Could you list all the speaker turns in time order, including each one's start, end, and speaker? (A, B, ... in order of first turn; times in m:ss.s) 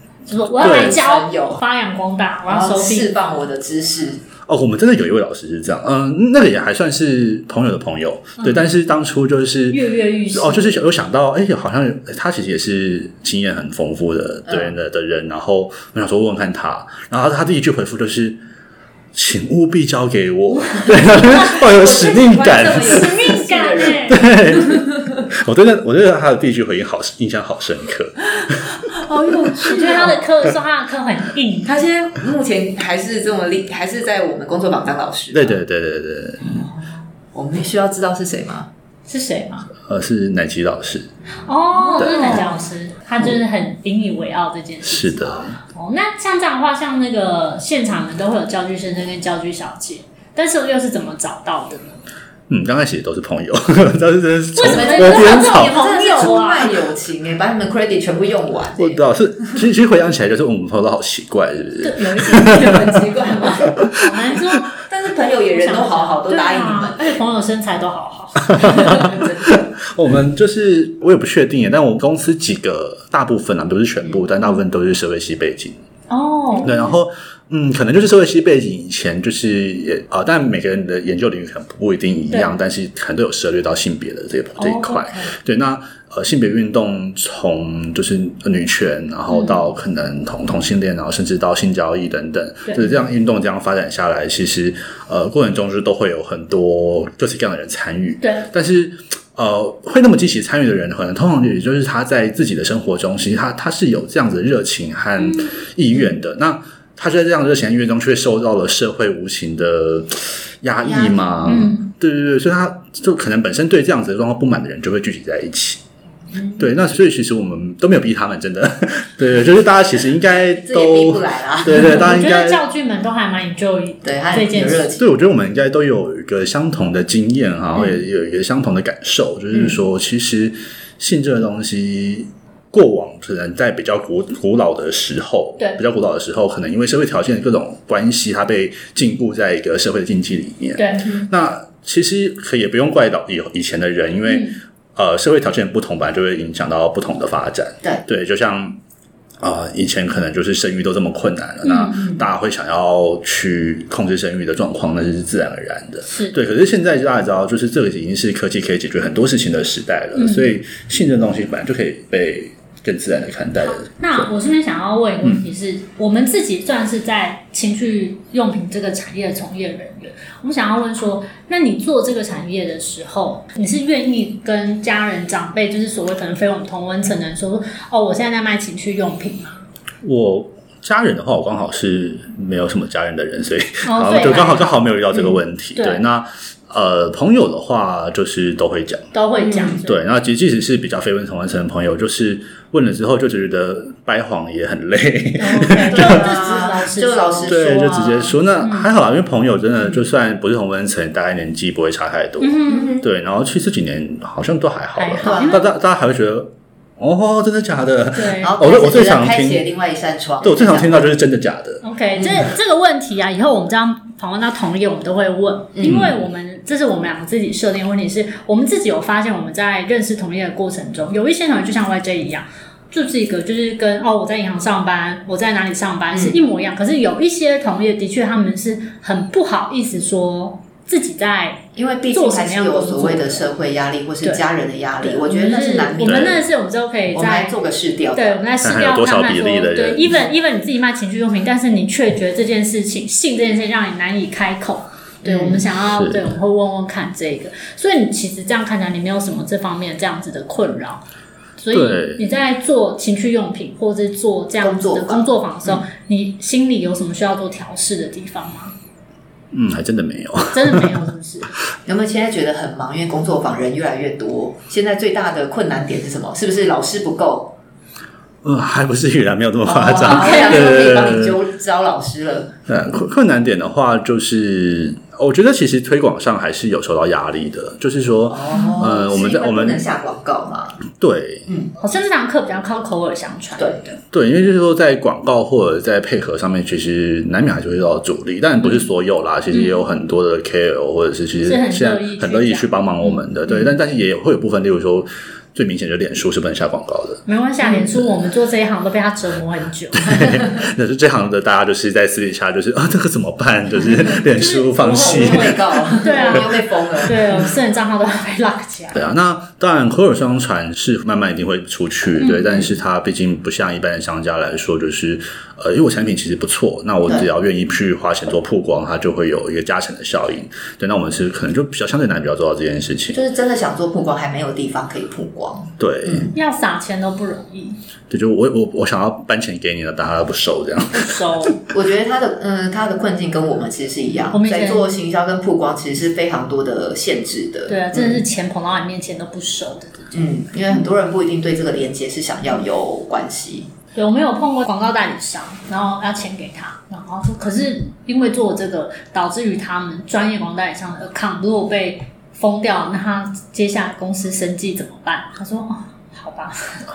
0:00.3-0:03.1 A
0:00.6-0:01.6 B
0:00.6-0:01.0 C
0:02.5-0:04.2 B
0:04.4-0:18.4 C
0:08.4-0:08.6 A
0:09.7-0:10.8 A
0:14.5-0:14.7 B
0:19.1-0:23.1 C
0:20.8-0:21.6 A
0:21.1-0:25.2 B
0:22.7-0:24.3 A
0:24.1-0:28.8 C
0:28.9-0:30.2 B
0:29.5-0:31.8 A
0:31.6-0:35.6 B
0:35.3-0:36.6 C
0:36.4-0:38.7 B
0:39.1-0:39.7 A
0:39.8-0:41.1 C
0:41.4-0:52.0 A
0:41.8-0:42.5 B
0:42.0-0:42.4 C
0:44.8-0:45.6 C
0:52.5-0:55.8 C
0:54.5-0:56.8 A
0:54.6-0:59.6 B
0:58.8-1:03.0 C
1:01.8-1:02.8 A
1:02.2-1:03.9 B
1:04.0-1:04.7 A
1:04.9-1:07.2 B
1:05.5-1:09.2 A
1:08.5-1:15.8 C
1:08.6-1:09.7 B
1:16.1-1:16.8 A
1:16.5-1:16.9 B
1:16.6-1:55.8 C
1:24.6-1:25.3 A
1:29.3-1:29.6 A
1:32.6-1:32.9 A
1:38.2-1:38.5 A
1:45.2-1:45.6 A
1:50.8-1:51.3 B
1:51.4-1:51.9 A
1:56.3-1:56.7 B
1:56.6-2:02.6 C
2:00.6-2:02.1 B
2:01.7-2:04.9 A
2:04.0-2:05.1 B
2:05.0-2:28.8 C
2:09.5-2:09.8 B
2:20.8-2:21.1 A
2:24.3-2:24.6 A
2:29.4-2:44.2 C
2:31.6-2:32.1 A
2:36.1-2:36.4 A
2:40.1-2:40.5 A
2:43.9-2:59.6 A
3:00.0-3:09.1 C
3:03.8-3:04.8 A
3:05.8-3:06.0 A
3:09.1-3:10.0 A
3:09.4-3:09.8 B
3:09.8-3:16.3 C
3:15.4-3:17.6 A
3:15.8-3:18.3 B
3:17.4-3:29.6 C
3:18.6-3:18.9 A
3:22.4-3:23.0 A
3:22.7-3:23.1 B
3:25.0-3:25.7 A
3:25.2-3:25.6 B
3:28.1-3:28.5 A
3:28.4-3:31.1 B
3:30.4-3:31.8 C
3:31.8-3:53.4 A
3:32.2-3:32.4 B
3:35.8-3:36.2 C
3:46.1-3:46.4 B
3:51.8-3:56.4 B
3:55.0-3:57.6 A
3:56.0-3:56.4 C
3:57.1-3:58.4 B
3:58.1-4:11.0 A
3:58.6-4:00.3 C
4:05.2-4:05.6 B
4:05.9-4:06.2 C
4:11.6-4:18.7 A
4:11.7-4:12.3 C
4:14.6-4:15.8 B
4:19.5-4:20.9 C
4:20.5-4:21.5 A
4:21.8-4:27.6 B
4:28.4-4:31.4 C
4:29.6-4:32.5 B
4:30.1-4:30.6 A
4:32.7-4:39.8 C
4:38.3-4:40.8 B
4:38.5-4:38.9 A
4:40.9-4:41.5 C
4:41.5-4:41.7 B
4:41.8-4:44.0 A
4:43.6-4:43.8 B
4:44.1-4:57.2 C
4:49.5-4:49.8 A
4:51.4-4:53.2 A
4:57.3-5:00.3 A
4:59.9-5:05.8 C
5:04.1-5:09.0 A
5:04.9-5:07.5 B
5:08.9-5:23.2 C
5:12.2-5:12.5 A
5:23.1-5:26.3 B
5:25.8-5:26.3 C
5:26.3-5:27.8 A
5:28.1-5:31.5 C
5:30.9-5:31.6 A
5:31.7-5:38.2 B
5:34.3-5:34.9 A
5:37.7-5:40.3 A
5:40.1-5:43.7 B
5:43.9-5:56.8 A